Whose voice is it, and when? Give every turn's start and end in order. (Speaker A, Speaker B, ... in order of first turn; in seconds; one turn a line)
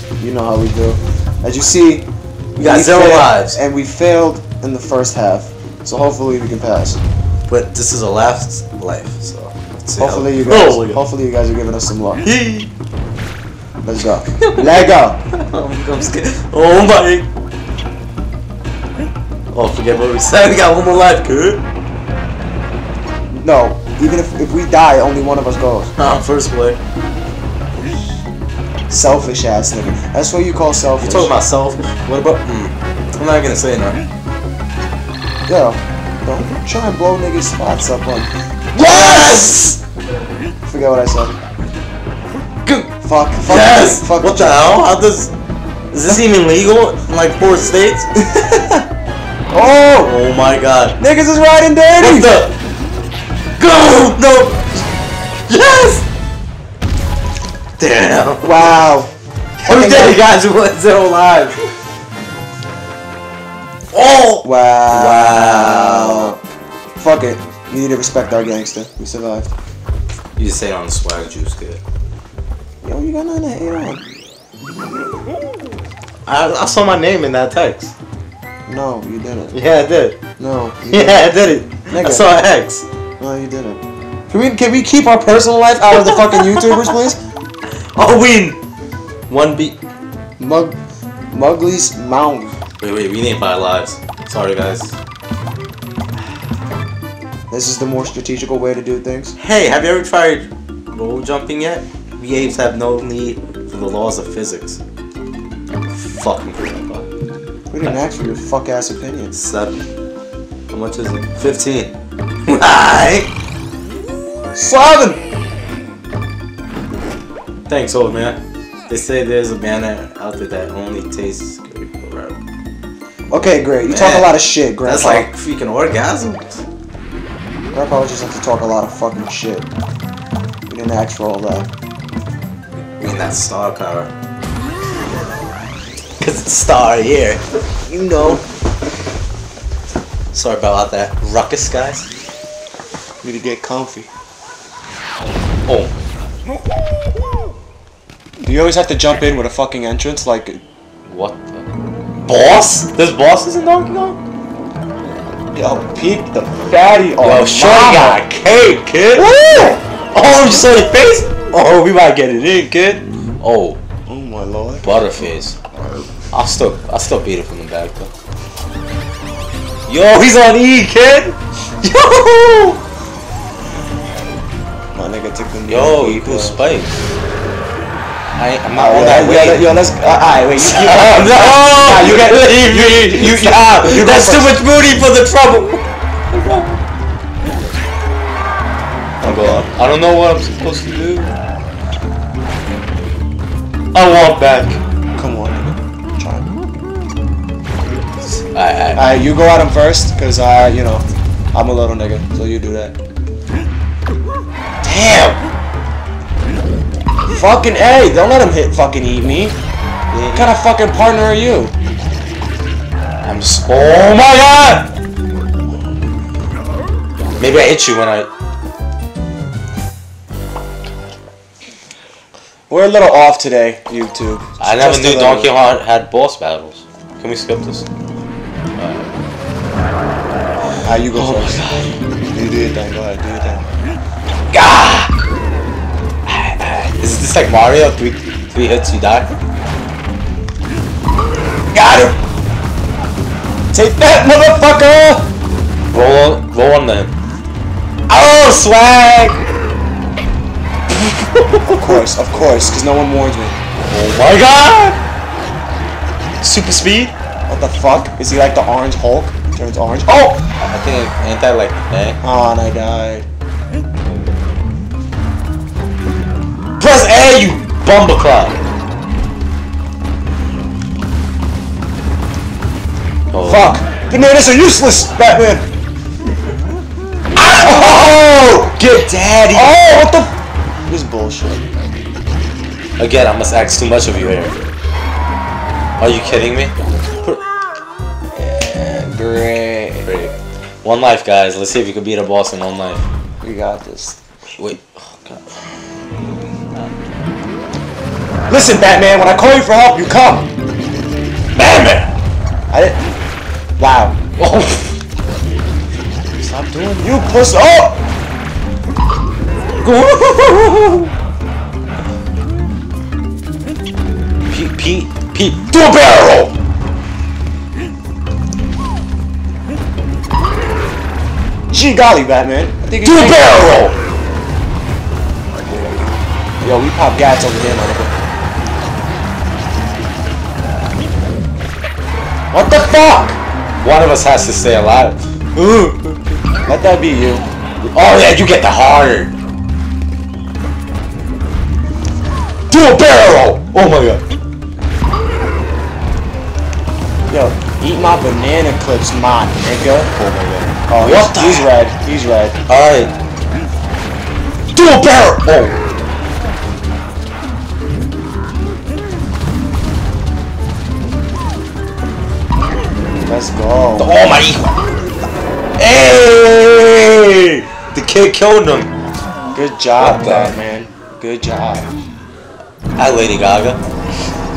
Speaker A: 0.2-7.0
Speaker B: 2.6-3.6
Speaker B: 7.5-11.0
Speaker A: 10.0-12.2
Speaker B: 12.2-12.7
Speaker A: 13.8-15.2
Speaker B: 14.4-17.3
Speaker B: 19.5-21.6
Speaker A: 23.3-25.9
Speaker B: 26.0-26.8
Speaker A: 28.9-31.4
Speaker B: 31.0-34.1
Speaker A: 35.5-39.5
Speaker B: 38.8-39.8
Speaker A: 40.6-41.4
Speaker A: 43.0-44.8
Speaker B: 43.4-45.3
Speaker B: 45.9-48.1
Speaker A: 48.3-48.8
Speaker A: 49.5-50.2
Speaker B: 50.0-51.0
Speaker A: 51.0-52.3
Speaker B: 52.0-52.5
Speaker B: 53.6-54.7
Speaker B: 55.5-56.0
Speaker B: 57.8-58.5
Speaker A: 58.4-59.1
Speaker B: 59.6-61.6
Speaker A: 59.6-60.2
Speaker B: 63.9-66.4
Speaker A: 64.4-66.4
Speaker A: 67.0-69.5
Speaker B: 70.4-71.8
Speaker A: 72.8-74.0
Speaker B: 76.3-77.9
Speaker A: 78.7-79.6
Speaker B: 79.5-80.2
Speaker A: 80.4-81.3
Speaker B: 80.9-82.8
Speaker A: 81.9-82.4
Speaker A: 83.2-87.2
Speaker B: 85.9-86.9
Speaker B: 87.9-88.6
Speaker B: 89.3-89.8
Speaker A: 90.4-90.8
Speaker A: 91.3-92.6
Speaker B: 92.8-95.0
Speaker A: 97.5-99.4
Speaker B: 99.4-104.8
Speaker B: 105.9-107.1
Speaker A: 107.7-109.3
Speaker B: 109.3-109.8
Speaker B: 110.7-111.9
Speaker B: 112.5-113.3
Speaker A: 114.5-115.2
Speaker B: 117.7-122.4
Speaker A: 123.3-125.3
Speaker B: 123.9-126.6
Speaker A: 127.7-129.7
Speaker A: 130.7-131.7
Speaker B: 133.0-134.1
Speaker B: 136.2-137.4
Speaker A: 137.9-138.4
Speaker B: 140.3-142.1
Speaker A: 143.2-144.1
Speaker B: 145.7-146.0
Speaker A: 148.4-150.6
Speaker B: 151.1-151.7
Speaker B: 152.3-154.2
Speaker A: 155.5-158.2
Speaker B: 157.2-163.8
Speaker A: 159.2-159.8
Speaker A: 164.1-165.1
Speaker B: 164.8-165.6
Speaker B: 166.3-168.1
Speaker B: 169.9-172.8
Speaker A: 174.9-176.6
Speaker B: 175.7-177.0
Speaker B: 178.4-179.7
Speaker A: 178.7-184.6
Speaker B: 180.6-186.8
Speaker A: 189.2-189.7
Speaker B: 189.2-191.3
Speaker B: 193.9-194.8
Speaker A: 195.2-196.5
Speaker B: 198.2-199.2
Speaker A: 198.9-202.9
Speaker B: 204.8-205.4
Speaker A: 207.3-209.6
Speaker B: 210.1-210.5
Speaker A: 210.3-211.7
Speaker B: 213.2-214.9
Speaker B: 217.4-218.3
Speaker A: 222.7-225.6
Speaker B: 224.6-227.9
Speaker B: 228.8-229.1
Speaker A: 230.8-231.7
Speaker B: 231.1-232.0
Speaker A: 232.3-233.7
Speaker B: 234.5-235.1
Speaker B: 236.3-239.3
Speaker A: 241.7-242.2
Speaker A: 243.7-245.3
Speaker B: 245.9-247.1
Speaker B: 248.1-249.5
Speaker B: 250.9-252.0
Speaker A: 251.7-253.6
Speaker B: 253.9-255.0
Speaker B: 256.4-257.1
Speaker A: 257.5-260.4
Speaker B: 260.1-262.2
Speaker A: 262.2-263.2
Speaker B: 266.8-268.6
Speaker B: 273.3-273.7
Speaker A: 273.4-275.7
Speaker B: 277.4-279.7
Speaker A: 277.5-278.5
Speaker A: 279.5-280.3
Speaker A: 280.9-281.6
Speaker B: 283.0-284.5
Speaker B: 286.0-287.4
Speaker A: 288.3-290.1
Speaker B: 290.1-293.0
Speaker A: 293.4-294.2
Speaker B: 294.6-295.6
Speaker A: 298.5-300.5
Speaker B: 301.6-302.1
Speaker A: 302.7-303.0
Speaker A: 303.8-304.2
Speaker B: 304.4-305.0
Speaker B: 306.4-307.4
Speaker A: 307.0-308.0
Speaker B: 309.8-311.1
Speaker B: 314.5-316.5
Speaker A: 321.7-323.5
Speaker B: 323.0-324.0
Speaker A: 326.6-328.1
Speaker A: 332.5-333.4
Speaker B: 333.8-336.4
Speaker A: 336.7-337.5
Speaker B: 337.8-339.3
Speaker B: 342.7-344.2
Speaker A: 347.3-350.1
Speaker B: 350.1-351.7
Speaker A: 350.9-352.6
Speaker B: 352.7-353.1
Speaker B: 354.7-355.8
Speaker A: 363.2-364.1
Speaker B: 364.0-364.8
Speaker B: 365.8-368.9
Speaker A: 369.5-371.9
Speaker B: 370.0-370.5
Speaker B: 373.0-373.8